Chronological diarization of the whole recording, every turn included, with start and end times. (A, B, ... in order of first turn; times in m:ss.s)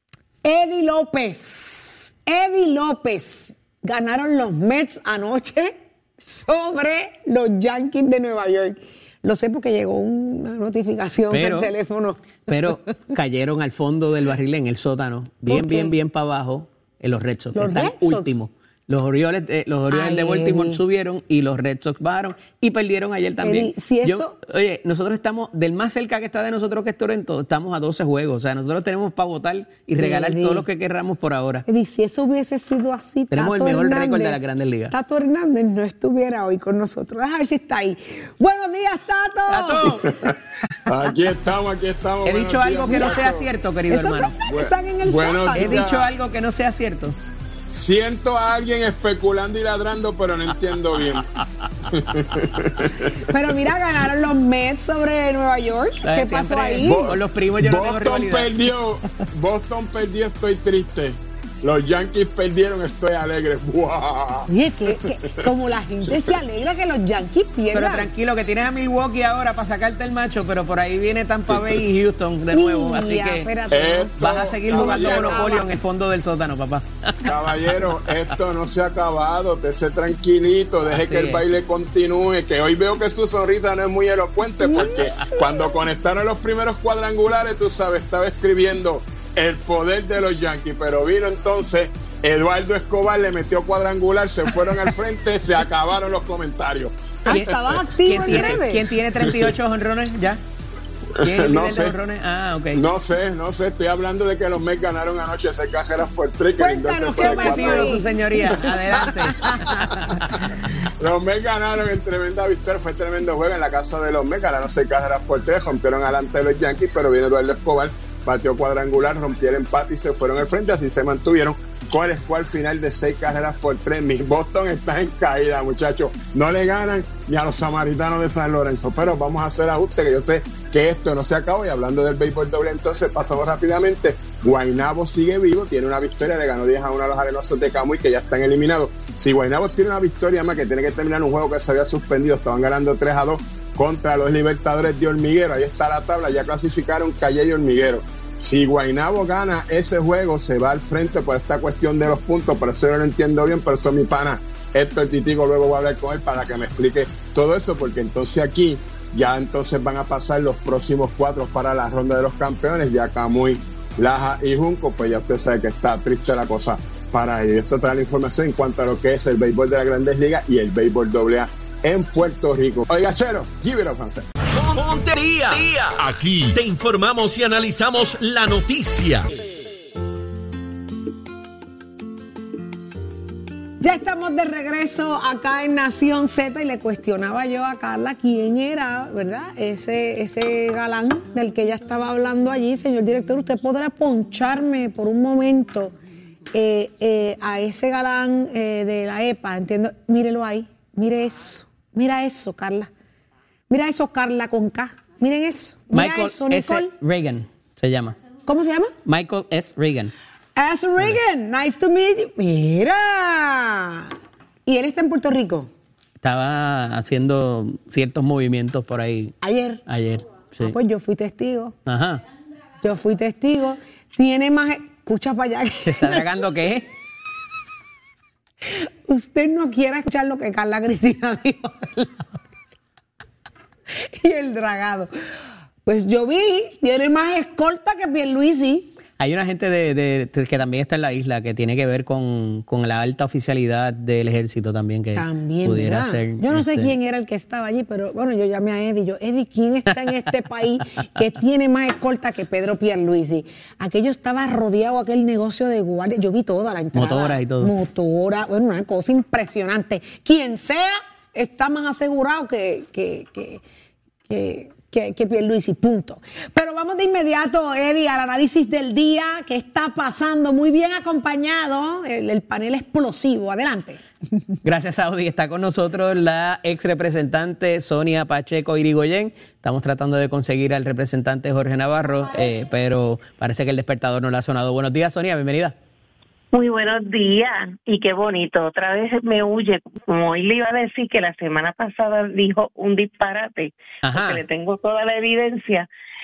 0:00.4-0:12.9 A
0:11.3-0:11.7 B
0:12.5-0:31.6 B
0:15.5-0:15.9 A
0:17.5-0:18.4 A
0:19.9-0:20.8 A
0:23.4-0:24.4 A
0:30.0-0:30.6 A
0:31.7-0:40.3 A
0:33.3-0:34.9 B
0:39.5-0:40.1 B
0:40.9-0:43.5 C
0:42.2-0:44.4 B
0:42.9-0:43.2 A
0:43.9-0:45.9 A
0:44.4-0:46.1 C
0:45.5-0:47.2 B
0:47.7-0:51.3 C
0:51.9-0:53.3 C
0:52.1-0:52.4 B
0:53.2-0:57.1 A
0:56.0-0:58.5 B
0:56.8-1:04.5 C
1:04.5-1:08.1 A
1:07.7-1:13.5 B
1:12.5-1:15.7 A
1:13.7-1:15.6 C
1:14.2-1:17.3 B
1:17.2-1:38.6 C
1:20.8-1:21.4 B
1:24.6-1:25.7 A
1:37.2-1:39.0 A
1:37.3-1:40.4 B
1:39.2-1:39.5 C
1:41.2-1:42.0 C
1:41.2-1:42.8 B
1:42.7-2:54.3 C
1:46.6-1:50.0 A
1:47.1-1:50.4 B
2:54.5-2:59.4 D
3:03.8-3:15.9 A
3:16.5-3:22.9 A
3:23.7-3:26.9 A
3:25.9-3:28.2 B
3:28.4-3:28.9 A
3:29.0-3:30.1 B
3:30.6-3:34.1 A
3:34.6-3:35.7 A
3:36.2-3:40.8 B
3:39.4-3:39.8 A
3:40.6-3:41.8 A
3:41.8-3:42.2 B
3:42.8-3:46.4 A
3:45.8-3:46.8 B
3:48.6-3:52.4 A
3:53.9-3:55.1 A
3:55.8-3:58.9 A
3:59.2-4:06.9 B
4:05.1-4:23.6 A
4:16.9-4:17.7 B
4:24.3-4:34.4 A
4:34.6-4:45.7 B
4:46.5-4:55.9 E
4:54.0-4:54.4 B